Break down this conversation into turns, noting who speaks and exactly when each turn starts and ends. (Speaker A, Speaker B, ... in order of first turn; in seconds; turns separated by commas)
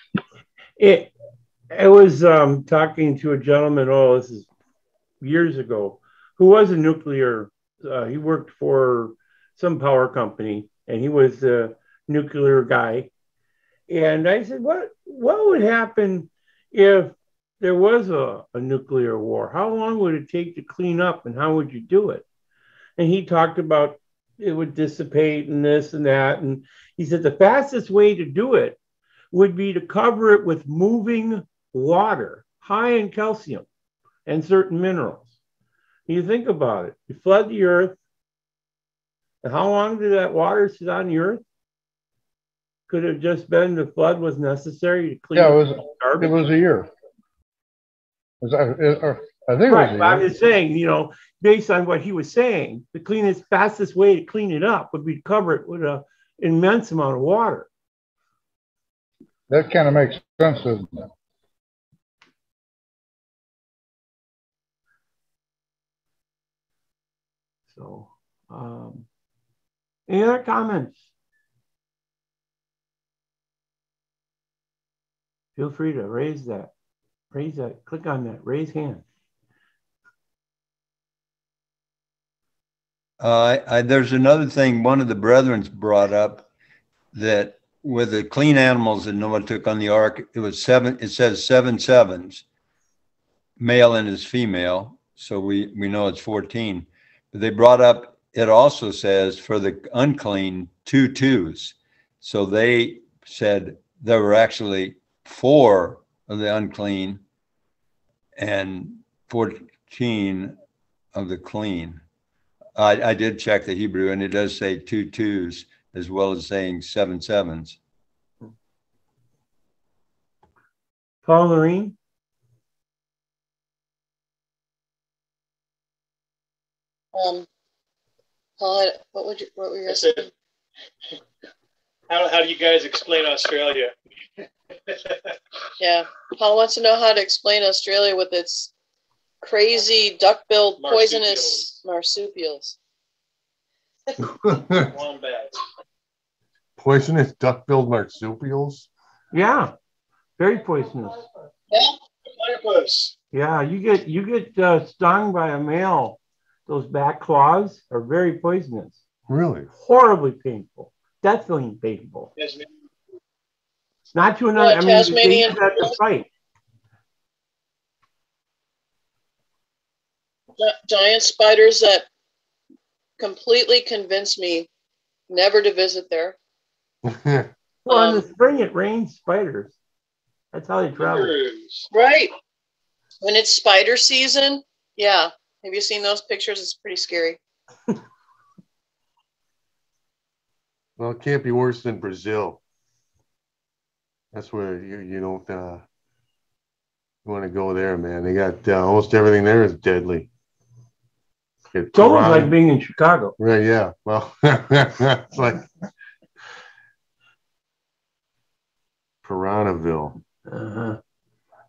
Speaker A: 0.8-1.1, Speaker A: 1.7-4.5, Speaker A: 5.2-13.1, Speaker A: 13.9-22.2, Speaker A: 23.0-28.8, Speaker A: 29.3-33.7, Speaker A: 34.3-35.3, Speaker A: 36.1-38.0, Speaker A: 39.4-41.4, Speaker A: 42.9-46.4, Speaker B: 45.4-46.9, Speaker B: 48.4-50.3, Speaker A: 49.7-57.7, Speaker B: 59.5-61.1, Speaker A: 67.7-69.1, Speaker A: 70.1-71.0, Speaker A: 75.6-76.7, Speaker A: 77.3-79.0, Speaker C: 83.2-86.5, Speaker C: 87.1-92.4, Speaker C: 93.6-107.2, Speaker C: 108.4-110.5, Speaker C: 111.1-112.0, Speaker C: 112.8-117.8, Speaker A: 121.3-122.0, Speaker D: 127.1-127.5, Speaker D: 128.6-130.3, Speaker E: 129.9-130.3, Speaker E: 132.1-133.9, Speaker E: 134.9-135.2, Speaker D: 135.8-138.7, Speaker D: 139.4-142.8, Speaker E: 140.8-141.7, Speaker F: 144.2-144.9, Speaker E: 144.5-145.6, Speaker F: 146.8-148.9, Speaker A: 149.3-149.7, Speaker A: 150.4-151.2, Speaker E: 152.2-153.1, Speaker A: 153.3-159.0, Speaker F: 159.3-159.7, Speaker A: 159.8-162.3, Speaker E: 162.4-162.7, Speaker A: 164.1-166.3, Speaker D: 164.6-166.0, Speaker D: 170.6-172.1, Speaker D: 173.2-174.7, Speaker D: 175.3-176.4, Speaker F: 177.1-177.5, Speaker A: 177.8-179.8, Speaker D: 177.9-178.2, Speaker A: 180.5-181.3, Speaker E: 181.0-181.9, Speaker D: 181.9-182.3, Speaker D: 183.2-187.4, Speaker F: 191.0-192.6, Speaker F: 194.3-195.8, Speaker F: 197.2-200.3, Speaker F: 201.7-202.6, Speaker A: 201.9-203.4, Speaker F: 203.4-205.7, Speaker F: 209.2-210.2, Speaker A: 210.5-211.0